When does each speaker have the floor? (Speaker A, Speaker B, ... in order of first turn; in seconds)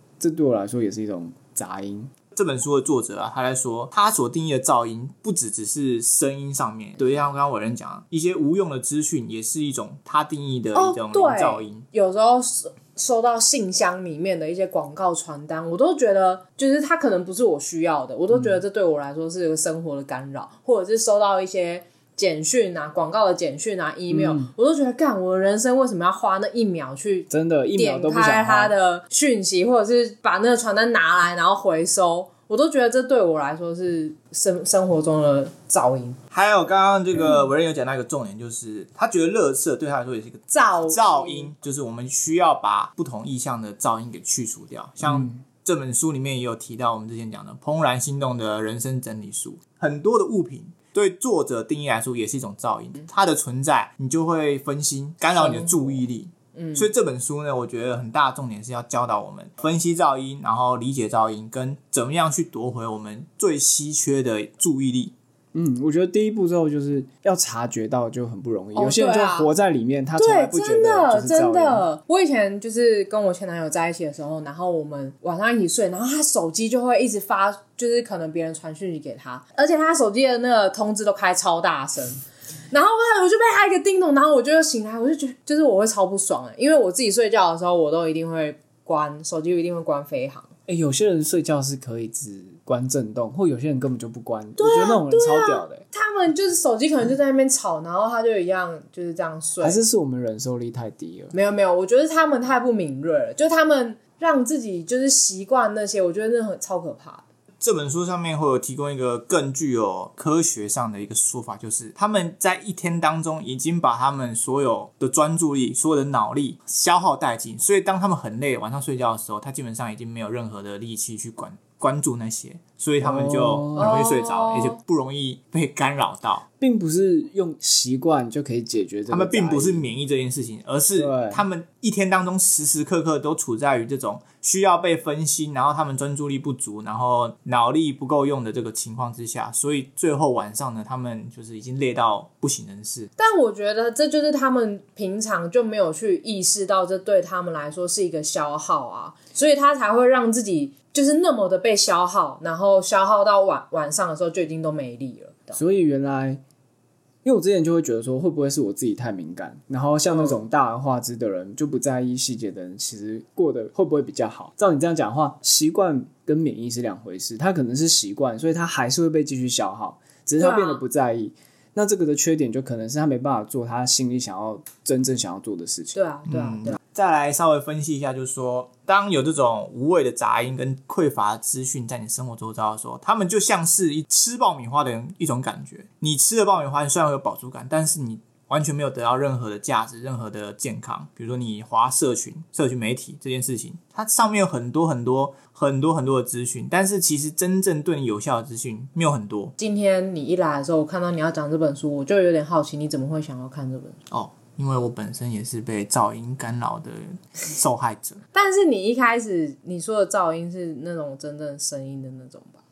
Speaker A: 0.2-2.1, 18.3-18.6, 24.1-24.5, 27.3-28.7, 45.0-45.4, 65.5-71.8, 90.7-95.8, 99.6-101.3, 123.0-124.0, 126.6-129.9, 131.0-131.4, 155.5-156.4, 157.2-176.0
Speaker B: 2.3-11.9, 36.3-65.1, 107.6-126.5, 129.1-143.1, 176.3-199.6, 204.1-208.2
Speaker C: 10.7-36.2, 40.5-41.5, 55.4-55.9, 56.5-56.9, 68.8-69.5, 70.2-90.5, 94.6-99.8, 101.3-107.2, 123.8-124.8, 143.2-155.6, 160.1-160.4, 170.4-170.8, 175.9-176.8, 199.6-204.0, 208.3-212.6